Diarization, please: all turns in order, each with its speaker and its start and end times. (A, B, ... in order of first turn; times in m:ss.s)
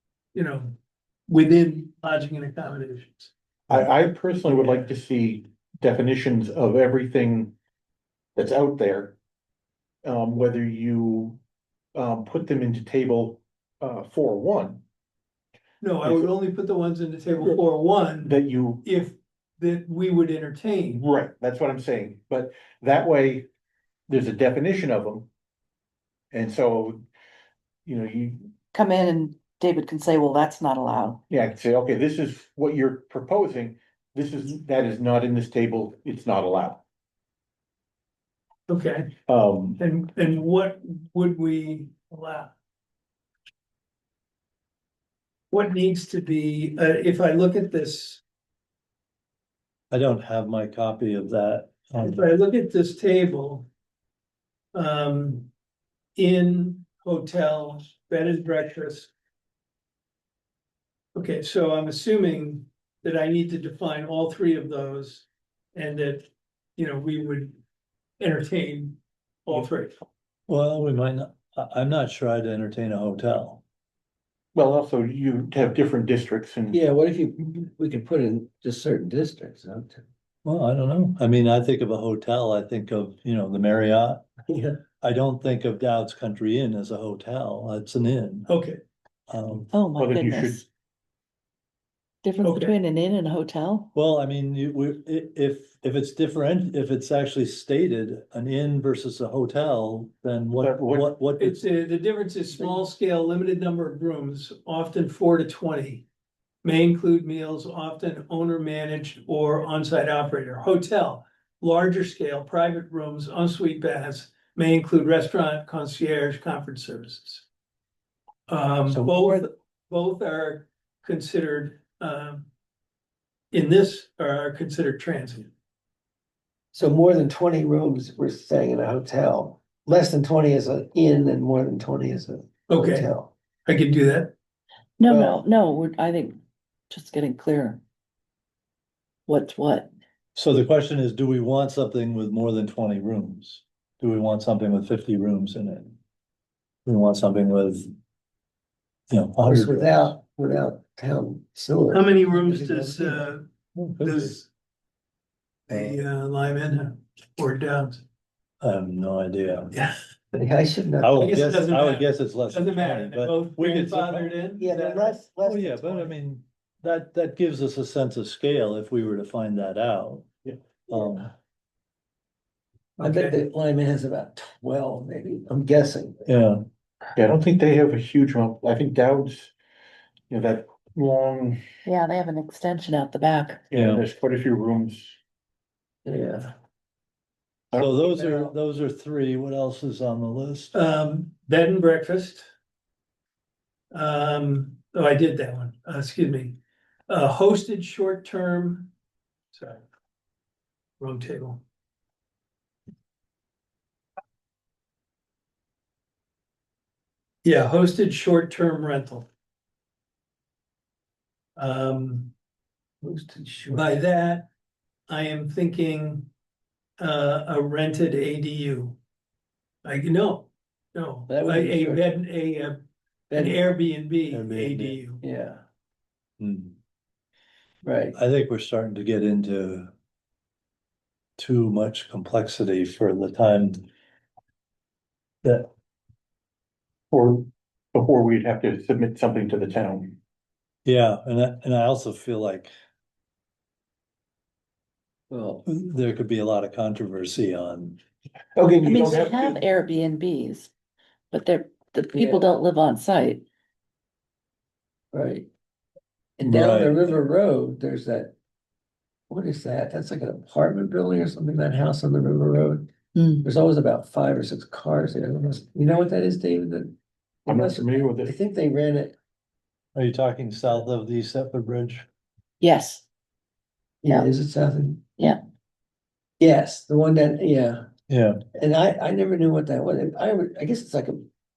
0:00.3-0:00.8 A
0:01.3-0:03.3 A
0:03.7-0:07.5 B
0:08.4-0:09.2 B
0:10.0-0:11.4 B
0:11.9-0:14.8 B
0:15.8-0:21.0 A
0:16.0-0:16.3 B
0:18.2-0:18.9 B
0:20.9-0:23.5 B
0:24.1-0:25.3 B
0:26.3-0:27.0 B
0:27.8-0:28.6 B
0:28.7-0:31.2 C
0:31.3-0:36.8 B
0:38.7-0:39.1 A
0:39.3-0:39.8 B
0:39.8-0:42.5 A
0:45.5-0:48.2 A
0:49.9-0:52.2 D
0:52.0-0:53.7 A
0:54.7-0:55.5 A
0:56.2-0:59.1 A
1:01.2-1:07.6 A
1:08.2-1:09.9 A
1:10.5-1:13.6 D
1:14.5-1:16.8 B
1:16.7-1:20.0 E
1:20.4-1:24.3 D
1:24.5-1:24.8 E
1:25.0-1:28.5 D
1:28.5-1:28.8 A
1:29.3-1:29.7 D
1:29.7-1:30.6 C
1:30.0-1:30.7 B
1:32.2-1:33.9 C
1:32.4-1:32.8 A
1:33.9-1:41.6 D
1:40.6-1:41.1 B
1:41.4-1:46.1 A
1:46.6-1:57.4 A
1:58.5-2:02.5 A
1:58.9-1:59.5 E
2:03.5-2:05.5 A
2:06.7-2:13.3 E
2:12.7-2:13.1 A
2:13.7-2:14.3 A
2:15.0-2:16.4 C
2:15.1-2:15.4 E
2:16.9-2:17.8 C
2:19.3-2:19.9 C
2:20.3-2:26.0 D
2:26.8-2:27.9 D
2:29.1-2:30.1 D
2:29.4-2:33.3 E
2:31.9-2:33.4 A
2:33.8-2:34.3 D
2:34.0-2:34.5 A
2:35.7-2:38.0 A
2:35.7-2:36.0 D
2:38.6-2:39.7 D
2:39.7-2:40.0 A
2:40.3-2:41.4 E
2:41.0-2:50.2 D
2:41.2-2:44.9 A
2:44.6-2:46.1 E
2:50.9-2:51.3 D
2:50.9-2:51.2 E
2:53.0-2:53.4 A
2:53.0-2:56.2 E
2:56.2-2:56.7 D
2:57.1-2:59.5 B
3:00.3-3:01.6 B
3:01.8-3:03.7 C
3:03.7-3:05.2 B
3:03.7-3:04.0 D
3:06.0-3:06.5 E
3:07.8-3:10.7 D
3:08.1-3:08.5 E
3:10.7-3:12.4 A
3:13.9-3:16.6 A
3:17.1-3:18.9 A
3:19.5-3:19.8 A
3:21.0-3:21.6 A
3:27.4-3:29.3 A
3:31.6-3:32.3 A
3:33.0-3:34.0 E
3:33.7-3:34.5 A
3:35.1-3:36.3 A
3:37.0-3:39.0 A
3:39.8-3:42.8 A
3:41.3-3:42.1 E
3:43.3-3:43.7 E
3:43.3-3:45.2 A
3:44.3-3:45.0 D
3:45.2-3:45.6 E
3:46.4-3:46.8 D
3:47.8-3:48.2 E
3:48.1-3:49.9 D
3:51.4-3:53.8 D
3:55.4-3:55.7 D
3:57.1-4:00.2 B
4:00.8-4:02.7 D
4:05.3-4:05.6 E
4:05.6-4:08.0 D
4:08.6-4:09.6 B
4:08.8-4:10.7 C
4:11.3-4:13.4 C
4:12.1-4:12.4 E
4:15.1-4:15.5 E
4:16.4-4:18.3 E
4:16.4-4:17.2 D
4:19.3-4:22.9 E
4:23.1-4:23.5 C
4:23.4-4:29.2 E
4:27.5-4:28.4 B
4:29.9-4:32.1 D
4:32.6-4:33.0 C
4:34.0-4:35.0 E
4:36.4-4:37.9 E
4:38.1-4:38.4 D
4:38.6-4:41.3 E